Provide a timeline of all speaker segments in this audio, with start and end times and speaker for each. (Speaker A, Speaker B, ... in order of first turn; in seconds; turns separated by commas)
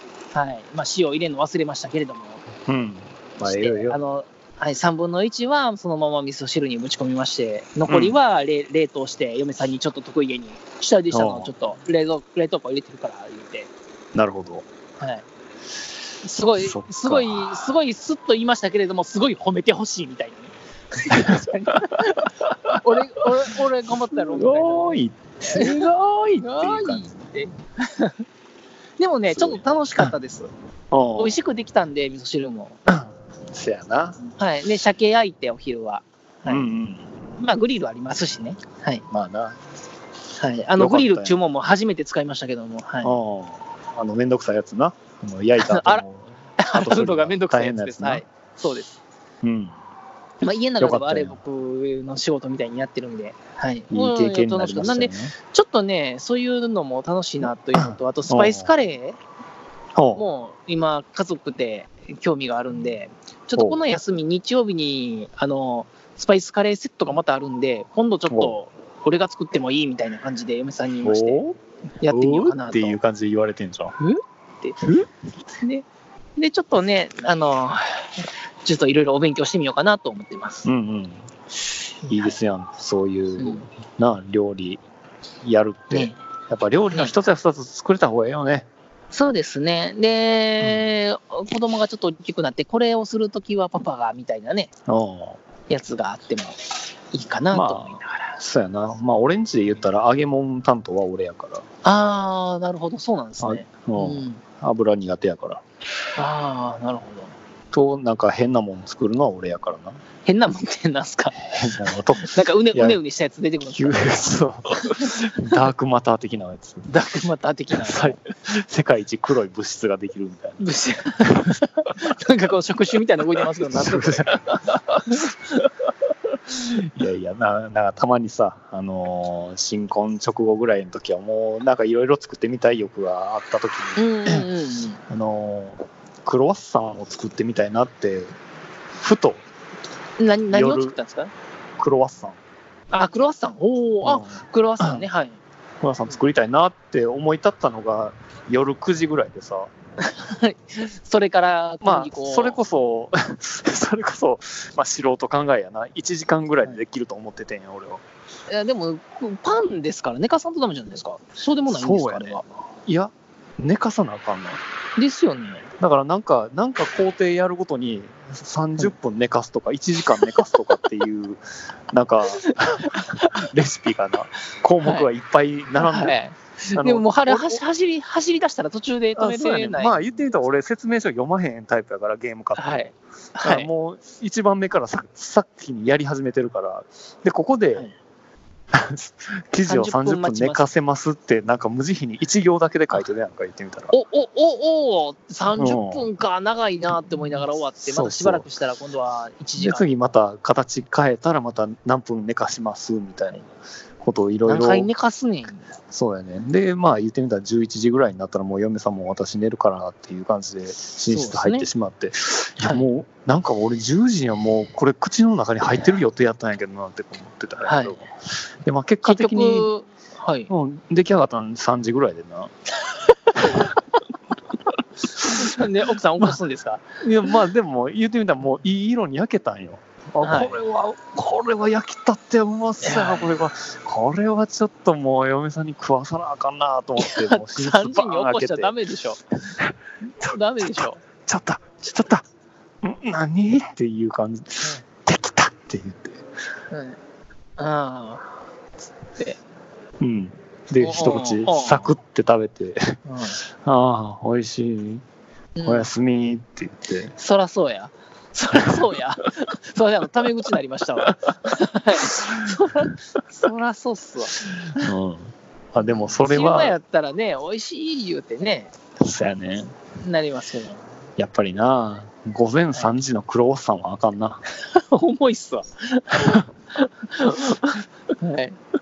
Speaker A: 0.3-2.4, Speaker B: 2.7-4.0, Speaker A: 3.4-13.7, Speaker B: 7.9-8.2, Speaker B: 11.1-11.5, Speaker B: 14.1-14.7, Speaker A: 15.0-15.2, Speaker A: 16.2-25.9, Speaker B: 16.6-17.6, Speaker B: 21.1-22.8, Speaker B: 24.2-27.2, Speaker A: 26.4-28.2, Speaker A: 29.0-30.5, Speaker B: 29.3-30.1, Speaker B: 30.9-31.4, Speaker A: 31.2-32.8, Speaker B: 32.9-34.2, Speaker A: 34.3-36.7, Speaker B: 36.5-37.1, Speaker A: 37.4-39.1, Speaker B: 39.1-39.6, Speaker A: 40.4-43.2, Speaker B: 40.8-41.4, Speaker B: 43.0-48.2, Speaker A: 45.6-46.0, Speaker A: 46.6-49.0, Speaker B: 49.4-49.8, Speaker A: 50.4-59.2, Speaker B: 50.8-51.4, Speaker B: 53.9-55.3, Speaker B: 57.8-58.7, Speaker B: 60.0-60.2, Speaker A: 60.1-71.4, Speaker B: 71.0-74.0, Speaker A: 72.0-73.0, Speaker A: 74.0-74.8, Speaker B: 74.8-75.1, Speaker A: 75.6-80.7, Speaker B: 80.7-81.2, Speaker B: 82.0-84.8, Speaker A: 82.1-82.3, Speaker A: 83.4-83.7, Speaker B: 85.4-88.7, Speaker A: 85.9-86.2, Speaker A: 89.1-94.7, Speaker B: 94.9-95.4, Speaker A: 95.7-98.4, Speaker B: 97.5-101.7, Speaker A: 101.8-104.4, Speaker B: 103.4-105.6, Speaker A: 106.2-107.3, Speaker B: 107.7-110.0, Speaker A: 110.3-111.5, Speaker B: 111.4-113.0, Speaker A: 112.2-114.0, Speaker B: 113.7-116.9, Speaker A: 116.9-118.2, Speaker B: 117.7-120.6, Speaker A: 120.6-124.7, Speaker B: 121.2-121.6, Speaker B: 123.7-125.1, Speaker B: 126.5-134.5, Speaker A: 134.0-135.0, Speaker B: 135.1-138.3, Speaker B: 139.0-139.4, Speaker A: 140.2-141.3, Speaker B: 140.5-141.0, Speaker B: 141.8-142.4, Speaker A: 142.9-145.4, Speaker B: 144.0-145.1, Speaker B: 145.8-149.7, Speaker A: 150.0-152.6, Speaker B: 151.8-158.0, Speaker A: 158.5-162.4, Speaker B: 161.7-164.6, Speaker A: 165.0-165.7, Speaker B: 165.8-176.2, Speaker A: 172.4-173.3, Speaker A: 174.8-175.1, Speaker A: 175.8-180.0, Speaker B: 176.7-177.6, Speaker B: 179.2-182.8, Speaker A: 182.6-183.7, Speaker B: 183.4-187.9, Speaker B: 188.7-193.9, Speaker A: 189.7-190.7, Speaker A: 193.9-199.9, Speaker B: 195.6-196.1, Speaker B: 197.8-198.5, Speaker B: 199.6-203.5, Speaker B: 204.0-204.9, Speaker A: 204.5-205.7, Speaker B: 205.9-218.1, Speaker A: 211.1-211.7, Speaker A: 212.6-212.9, Speaker A: 217.7-218.0, Speaker B: 218.6-219.7, Speaker A: 219.0-220.5, Speaker B: 220.5-222.5, Speaker A: 223.3-223.7, Speaker B: 223.4-223.7, Speaker A: 225.2-227.0, Speaker B: 227.0-238.7, Speaker A: 230.2-230.6, Speaker A: 232.8-233.3, Speaker A: 237.0-239.2, Speaker B: 239.6-242.2, Speaker A: 240.2-241.0, Speaker B: 242.8-246.2, Speaker A: 246.7-247.0, Speaker A: 247.6-248.3, Speaker B: 250.0-255.0, Speaker A: 250.8-251.9, Speaker A: 253.1-253.4, Speaker A: 255.6-255.9, Speaker B: 255.7-257.1, Speaker A: 257.2-264.9, Speaker B: 264.8-266.8, Speaker A: 266.0-268.7, Speaker B: 269.0-269.7, Speaker A: 270.0-270.8, Speaker B: 271.2-274.4, Speaker A: 274.6-278.6